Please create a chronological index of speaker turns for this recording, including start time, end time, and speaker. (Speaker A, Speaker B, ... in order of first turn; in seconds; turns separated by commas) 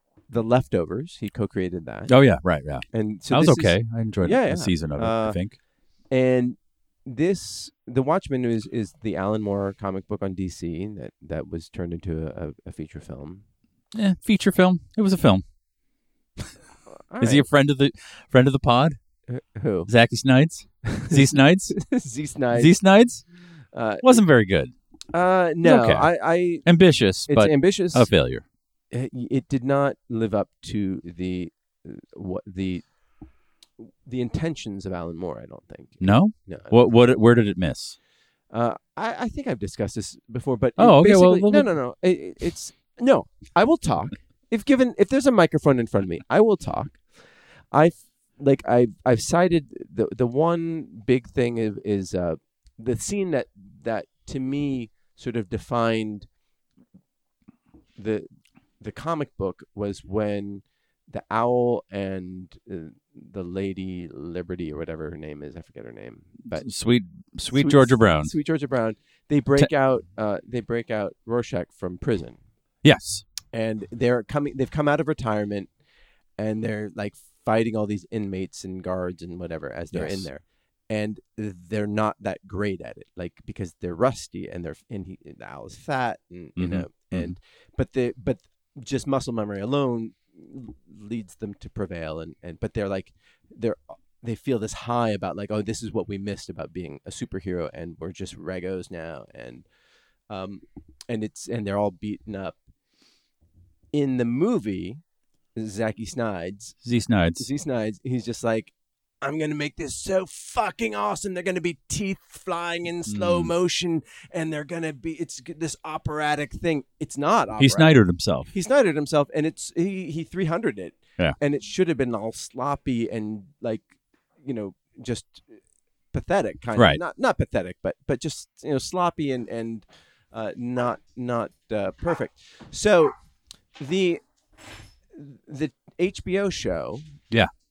Speaker A: 0.3-2.1, Speaker B: 2.1-5.6, Speaker A: 2.9-13.4, Speaker B: 13.9-15.4, Speaker A: 16.9-17.5, Speaker B: 17.2-19.0, Speaker A: 19.3-19.9, Speaker B: 19.9-21.9, Speaker A: 20.9-22.7, Speaker B: 22.5-23.3, Speaker A: 23.7-24.2, Speaker B: 24.0-24.7, Speaker A: 25.1-26.7, Speaker B: 25.6-28.4, Speaker A: 27.2-28.1, Speaker A: 28.9-32.9, Speaker A: 33.8-36.9, Speaker B: 36.0-38.0, Speaker A: 38.5-47.1, Speaker B: 40.8-41.7, Speaker A: 47.7-56.3, Speaker A: 58.0-66.7, Speaker B: 66.5-68.3, Speaker A: 67.5-72.4, Speaker B: 72.8-73.3, Speaker A: 73.5-75.7, Speaker A: 76.4-99.7, Speaker B: 79.9-80.3, Speaker B: 86.6-87.4, Speaker A: 100.3-102.6, Speaker A: 103.9-105.0, Speaker A: 105.6-106.8, Speaker B: 106.8-107.5, Speaker A: 107.4-123.9, Speaker B: 113.1-113.5, Speaker B: 117.6-118.5, Speaker A: 124.4-125.5, Speaker A: 126.1-133.1, Speaker B: 126.8-127.0, Speaker A: 133.8-134.2, Speaker A: 135.1-137.1